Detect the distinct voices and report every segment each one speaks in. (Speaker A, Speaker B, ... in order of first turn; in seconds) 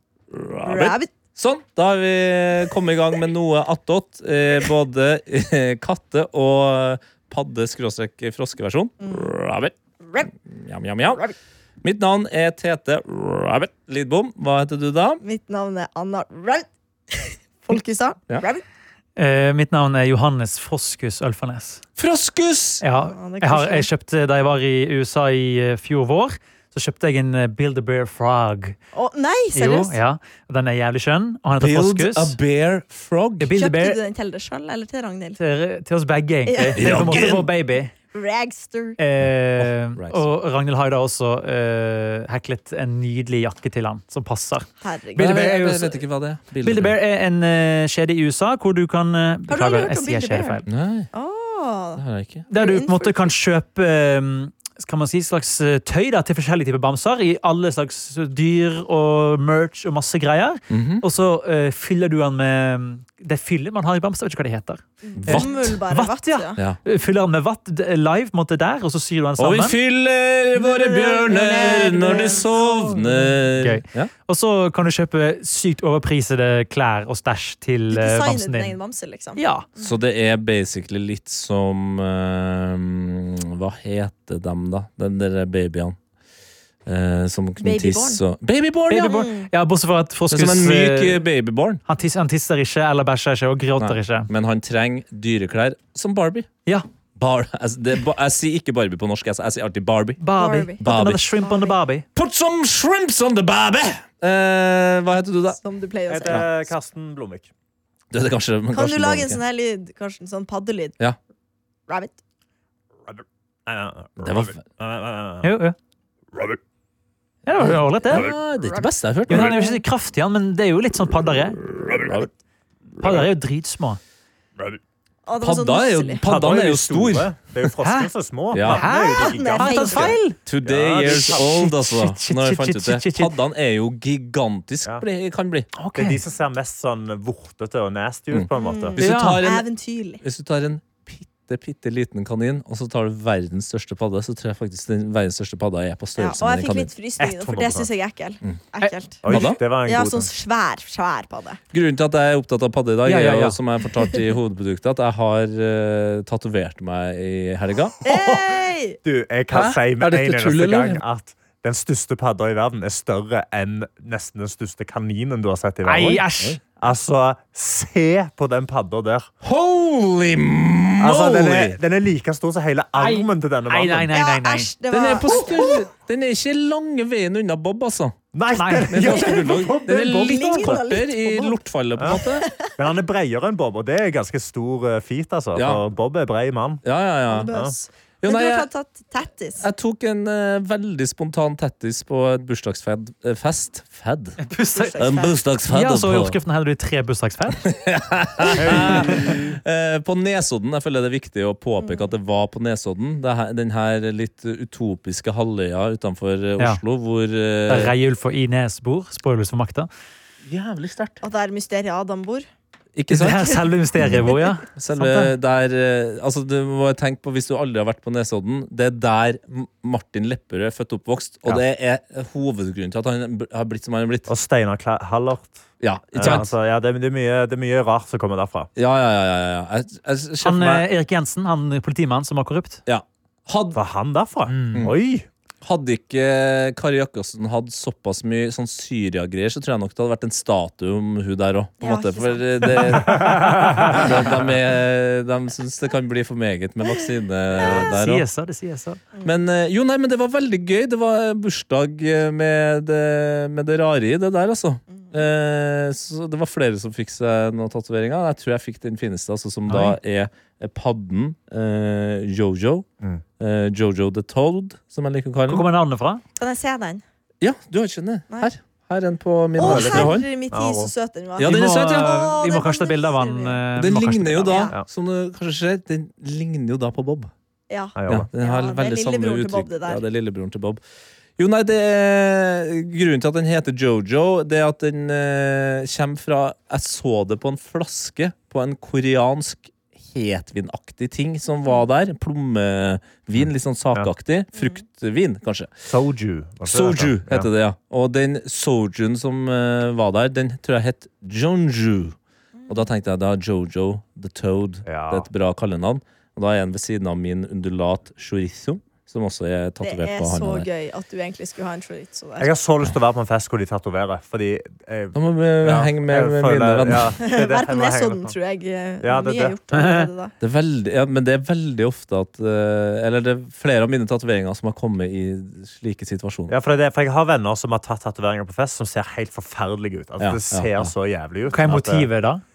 Speaker A: 0.3-9.7, 10.2-11.3, 11.8-15.2, 22.0-22.8, 31.6-33.5, 36.8-37.5, 39.6-40.2, 45.1-47.0, 50.7-51.1, 52.0-52.5, 60.7-61.0, 65.2-65.7, 69.4-74.1, 79.8-86.0, 86.8-89.2, 90.3-91.8, 93.8-96.5, 97.2-100.2, 100.8-101.3, 102.1-105.6, 108.1-109.4, 114.2-114.6, 117.6-119.5, 121.7-122.3, 125.4-127.7, 128.5-128.8, 130.4-135.7, 138.3-139.7, 140.2-146.9, 149.3-149.6, 151.7-158.4, 159.5-161.0, 169.4-171.8, 174.9-178.2, 178.9-182.5, 185.5-185.8, 186.8-187.5, 188.2-188.7, 189.6-194.4, 195.0-196.4, 197.6-207.9, 210.5-211.2, 212.9-224.3, 225.8-226.5, 228.8-230.8, 232.8-233.8, 235.6-248.2, 249.2-262.9, 263.4-265.6, 267.4-270.3, 271.4-272.2, 273.8-277.3, 278.1-280.8, 281.4-295.7, 296.6-302.1, 302.7-310.7, 315.1-317.2, 320.4-326.5, 330.2-330.9
Speaker B: 0.6-1.1, 9.0-9.3, 10.0-10.3, 15.2-18.6, 22.9-23.9, 28.9-30.0, 33.5-35.4, 36.5-37.4, 38.1-39.0, 44.8-45.4, 49.5-53.3, 65.0-66.6, 70.5-73.0, 77.9-79.9, 87.6-88.2, 89.1-89.5, 100.3-100.8, 101.4-101.8, 105.6-106.5, 108.7-110.9, 111.9-112.2, 118.6-119.8, 125.2-126.2, 128.9-130.2, 138.6-140.2, 146.2-149.2, 149.8-151.6, 158.0-159.0, 174.1-175.9, 179.0-182.7, 187.3-189.7, 194.7-195.4, 201.8-202.1, 211.2-212.4, 241.8-243.0, 247.6-247.9, 266.4-267.0, 269.6-273.7, 274.4-274.7, 277.7-280.0, 294.6-294.8, 309.8-312.5, 317.2-320.3
Speaker C: 19.2-21.8, 22.8-28.8, 29.5-32.4, 33.4-34.0, 35.4-37.9, 39.0-46.0, 46.6-50.6, 52.5-69.8, 73.3-78.8, 79.3-79.7, 88.9-91.2, 91.8-94.3, 100.2-102.0, 115.4-115.8, 117.4-118.3, 119.3-121.6, 123.0-124.0, 127.8-130.4, 131.0-133.3, 135.8-136.2, 139.0-139.4, 153.0-153.6, 165.8-166.6, 173.0-174.7, 178.5-179.1, 194.4-195.0, 195.7-197.6, 198.7-199.3, 207.7-209.9, 213.1-215.3, 230.4-232.8, 234.5-234.9, 247.7-249.0, 259.7-260.0, 265.5-266.2, 271.4-274.6, 319.7-320.1, 331.5-332.4
Speaker D: 106.1-107.5, 113.1-115.5, 126.2-131.5, 135.9-139.0, 147.2-147.9, 149.2-150.3, 159.0-166.2, 166.8-169.3, 171.0-174.1, 178.3-180.8, 182.8-187.7, 198.6-199.5, 224.3-225.6, 226.1-228.7, 233.7-235.3, 243.0-244.1, 269.6-270.9, 277.9-278.3, 293.4-294.1, 295.8-297.5, 304.8-305.3, 312.4-318.4, 319.0-319.6, 326.5-332.1